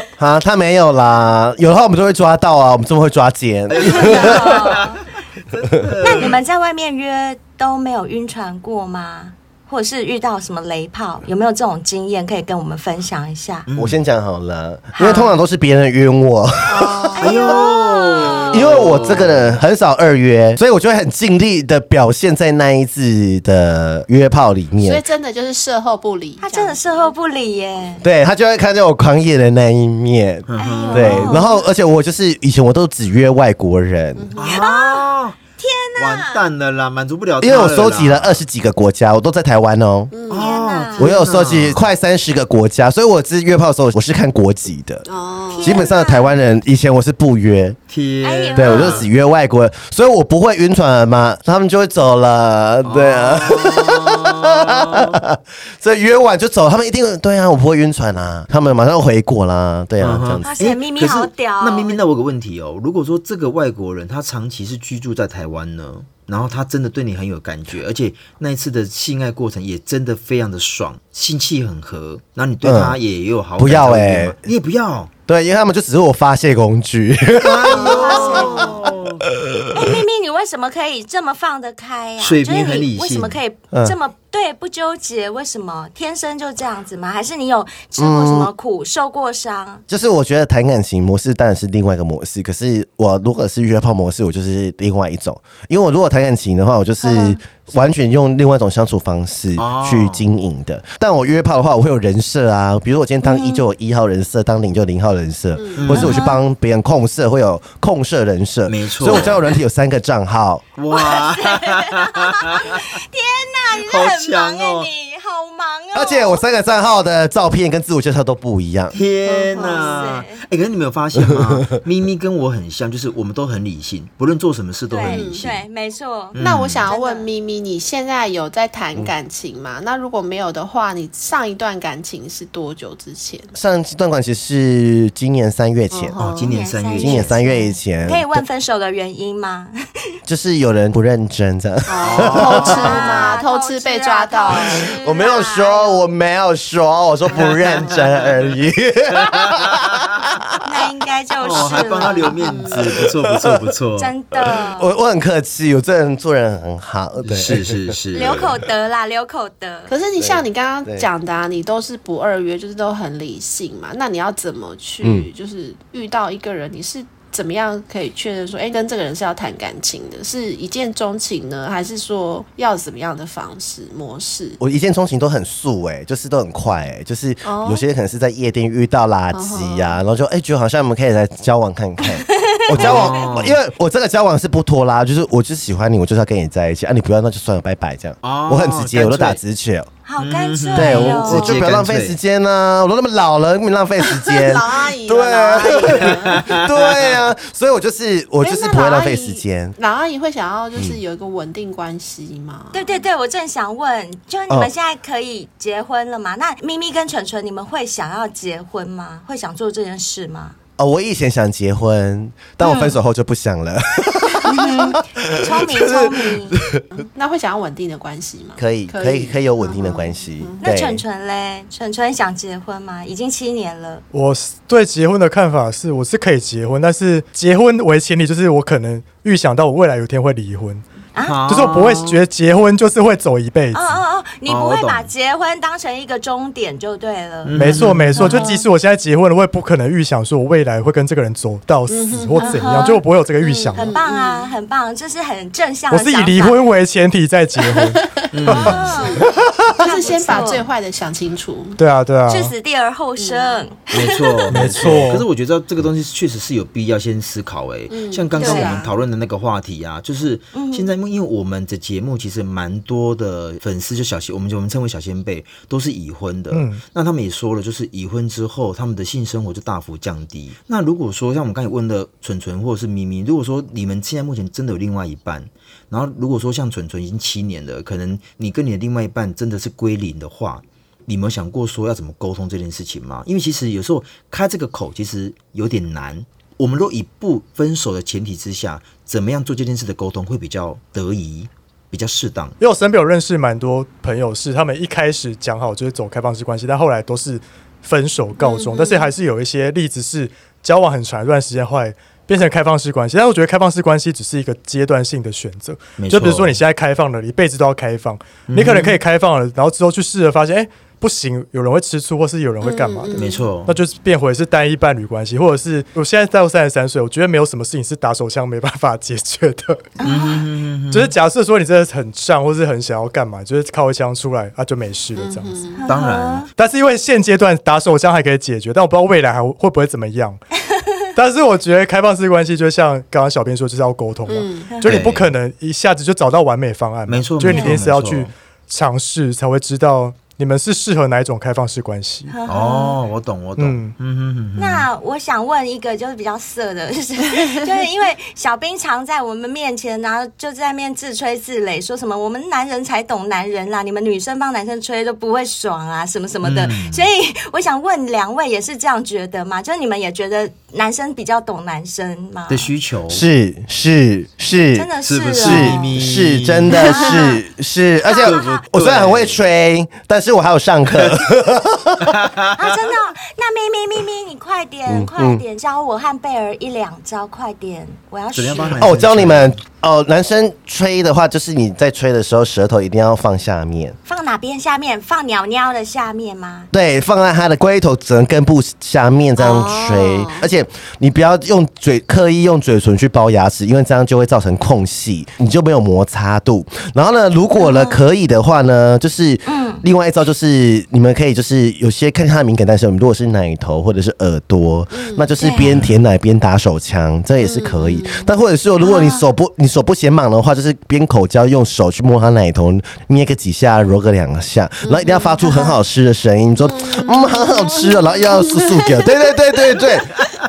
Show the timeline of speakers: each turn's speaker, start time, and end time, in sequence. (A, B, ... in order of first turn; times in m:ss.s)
0:00.2-0:04.8 A
0:03.7-0:06.4 B
0:03.8-0:05.0 C
0:06.0-0:13.7 C
0:13.7-0:14.0 B
0:13.7-0:17.3 A
0:15.0-0:15.4 C
0:16.7-0:17.3 D
0:17.2-0:18.8 C
0:17.2-0:19.6 B
0:18.5-0:25.0 A
0:24.8-0:27.1 D
0:26.4-0:28.0 C
0:28.0-0:34.3 A
0:30.5-0:31.4 B
0:30.6-0:31.6 C
0:30.9-0:31.3 D
0:34.2-0:34.6 D
0:34.4-0:35.4 B
0:34.5-0:36.4 C
0:36.0-0:38.4 B
0:37.4-0:40.1 A
0:40.1-0:40.5 D
0:40.3-0:41.9 B
0:40.3-0:41.1 C
0:41.0-0:45.1 A
0:45.1-0:45.8 D
0:45.5-0:46.3 C
0:45.6-0:47.8 A
0:47.9-0:49.1 B
0:48.2-0:49.1 C
0:48.5-1:00.5 A
0:52.8-0:55.2 B
1:00.0-1:15.1 B
1:00.4-1:02.0 C
1:12.6-1:13.0 A
1:13.6-1:14.4 A
1:15.3-1:18.7 A
1:17.4-1:19.3 B
1:17.7-1:18.7 C
1:17.8-1:18.6 D
1:19.4-1:19.7 A
1:19.7-1:29.8 C
1:22.2-1:23.4 B
1:28.0-1:28.5 A
1:29.9-1:50.6 A
1:37.0-1:37.4 C
1:39.6-1:40.3 B
1:43.2-1:43.6 C
1:45.6-1:46.1 D
1:45.8-1:46.2 B
1:45.9-1:46.4 C
1:48.7-1:49.5 B
1:50.8-1:52.9 B
1:50.9-1:56.4 C
1:53.8-1:54.9 B
1:55.9-1:59.0 A
1:58.9-2:05.6 B
1:59.3-2:00.1 D
1:59.6-2:00.4 C
2:01.3-2:01.6 A
2:04.9-2:07.3 C
2:05.0-2:05.4 D
2:06.3-2:06.9 B
2:06.4-2:13.5 D
2:13.6-2:16.2 A
2:15.9-2:16.6 D
2:16.2-2:17.4 B
2:16.4-2:19.7 C
2:17.0-2:18.4 A
2:20.3-2:23.0 A
2:21.9-2:24.9 D
2:22.0-2:23.1 B
2:22.6-2:26.0 C
2:24.9-2:30.1 A
2:27.3-2:28.5 B
2:29.2-2:30.0 B
2:30.6-2:32.4 C
2:31.4-2:34.1 B
2:31.6-2:32.8 D
2:32.7-2:33.7 A
2:34.0-2:34.9 C
2:34.5-2:38.0 A
2:37.2-2:38.5 B
2:38.1-2:39.9 C
2:39.9-2:54.6 D
2:40.2-2:41.1 A
2:45.0-2:45.3 A
2:54.6-3:09.9 A
2:57.4-2:57.8 D
2:59.3-3:00.0 D
3:02.2-3:03.1 C
3:02.8-3:03.6 B
3:08.2-3:09.4 B
3:10.1-3:11.6 C
3:10.2-3:12.2 B
3:10.8-3:19.8 A
3:14.2-3:16.5 D
3:16.0-3:17.2 B
3:18.4-3:23.0 D
3:22.7-3:30.6 C
3:30.8-3:36.8 A
3:32.6-3:33.0 C
3:34.4-3:36.6 C
3:36.9-3:40.6 D
3:38.6-3:41.0 A
3:40.6-3:44.0 C
3:44.1-3:50.8 E
3:51.3-3:52.2 B
3:51.5-3:54.0 E
3:53.7-3:58.6 C
3:54.5-3:55.1 B
3:57.4-3:58.3 B
3:57.5-4:04.0 E
3:58.2-3:58.6 D
4:01.9-4:04.5 D
4:02.4-4:03.0 C
4:03.7-4:06.6 C
4:05.9-4:09.8 E
4:07.7-4:08.2 D
4:08.3-4:09.0 B
4:08.5-4:10.7 C
4:08.8-4:11.8 D
4:11.8-4:12.5 E
4:12.3-4:14.7 C
4:13.2-4:13.6 D
4:13.9-4:52.6 B
4:14.5-4:15.3 E
4:17.9-4:19.0 D
4:18.4-4:18.8 C
4:20.5-4:20.9 C
4:26.5-4:26.8 E
4:52.6-5:19.9 E
4:58.4-4:59.1 D
5:06.0-5:06.6 B
5:08.5-5:09.0 B
5:12.6-5:13.5 D
5:13.1-5:13.8 B
5:20.0-5:20.4 C
5:20.0-5:21.1 B
5:20.9-5:25.7 E
5:25.2-5:25.8 D
5:25.8-5:26.5 C
5:25.9-5:26.5 B
5:26.6-5:30.4 E
5:31.2-5:42.3 E
5:34.3-5:34.7 D
5:34.7-5:35.0 C
5:34.8-5:35.3 B
5:37.1-5:38.3 B
5:37.5-5:37.8 C
5:42.3-5:43.0 C
5:42.5-5:44.9 B
5:43.6-5:44.0 E
5:44.6-6:02.7 C
5:56.4-5:57.1 B
6:02.5-6:03.3 B
6:03.1-6:12.2 A
6:04.8-6:06.0 C
6:05.0-6:06.9 B
6:06.7-6:07.4 C
6:08.0-6:08.6 C
6:08.2-6:09.4 B
6:12.0-6:12.7 B
6:12.6-6:18.8 C
6:14.9-6:15.4 A
6:18.4-6:19.6 B
6:18.8-6:24.0 A
6:24.1-6:26.7 C
6:26.7-7:00.2 A
6:29.4-6:30.5 D
6:37.6-6:38.0 C
6:39.5-6:39.8 C
6:44.9-6:45.3 D
6:45.4-6:45.8 C
6:45.7-6:46.0 B
6:47.4-6:48.3 D
6:48.8-6:49.2 C
6:54.8-6:55.4 D
6:55.4-6:55.8 C
6:56.6-6:59.2 D